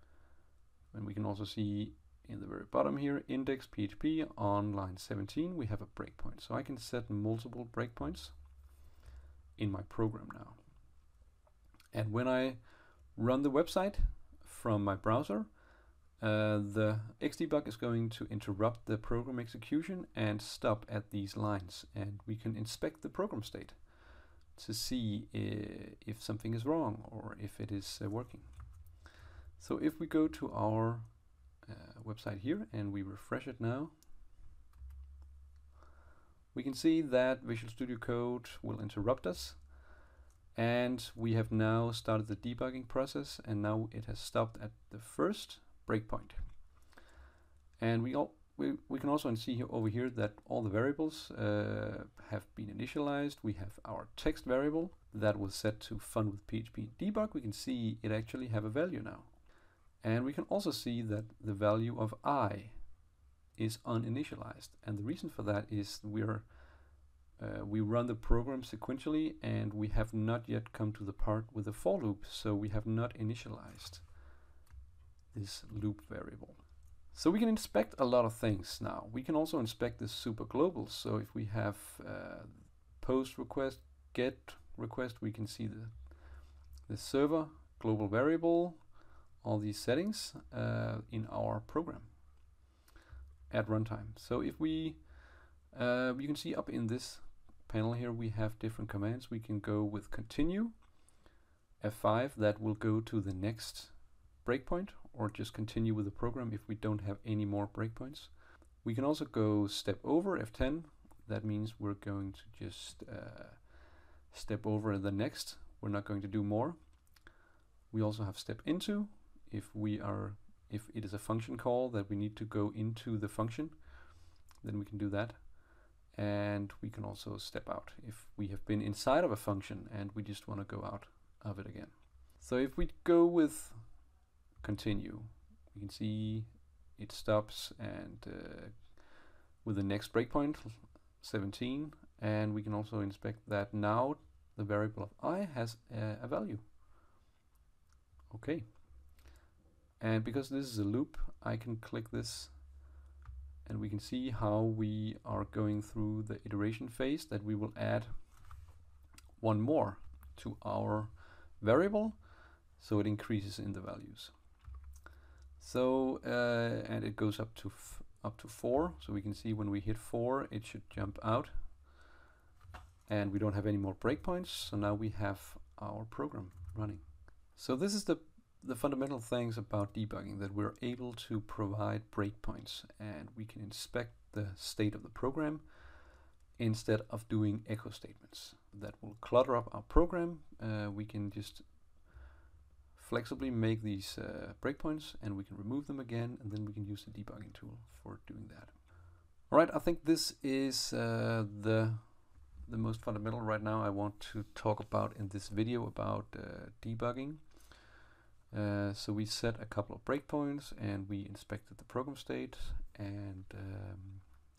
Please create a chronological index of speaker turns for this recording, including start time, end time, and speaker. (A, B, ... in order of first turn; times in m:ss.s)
0:00.9-0:08.4 A
0:09.6-0:10.6 A
0:11.9-0:15.5 A
0:16.2-0:23.8 A
0:24.5-0:28.5 A
0:29.6-0:34.0 A
0:36.5-0:39.6 A
0:40.6-0:46.4 A
0:47.8-0:59.3 A
1:00.0-1:02.8 A
1:03.6-1:06.5 A
1:07.4-1:14.1 A
1:15.3-1:26.0 A
1:26.9-1:28.9 A
1:29.4-1:32.1 A
1:33.5-1:35.1 A
1:35.7-1:40.8 A
1:41.8-1:53.7 A
1:54.3-1:56.8 A
1:57.9-2:03.9 A
2:04.6-2:05.5 A
2:06.1-2:13.8 A
2:14.6-2:19.0 A
2:19.6-2:26.7 A
2:28.3-2:28.7 A
2:30.0-2:32.6 A
2:33.6-2:38.1 A
2:39.4-2:42.2 A
2:42.8-2:44.3 A
2:45.6-2:51.5 A
2:53.1-3:05.7 A
3:06.6-3:11.7 A
3:13.0-3:18.8 A
3:19.5-3:27.7 A
3:28.5-3:34.3 A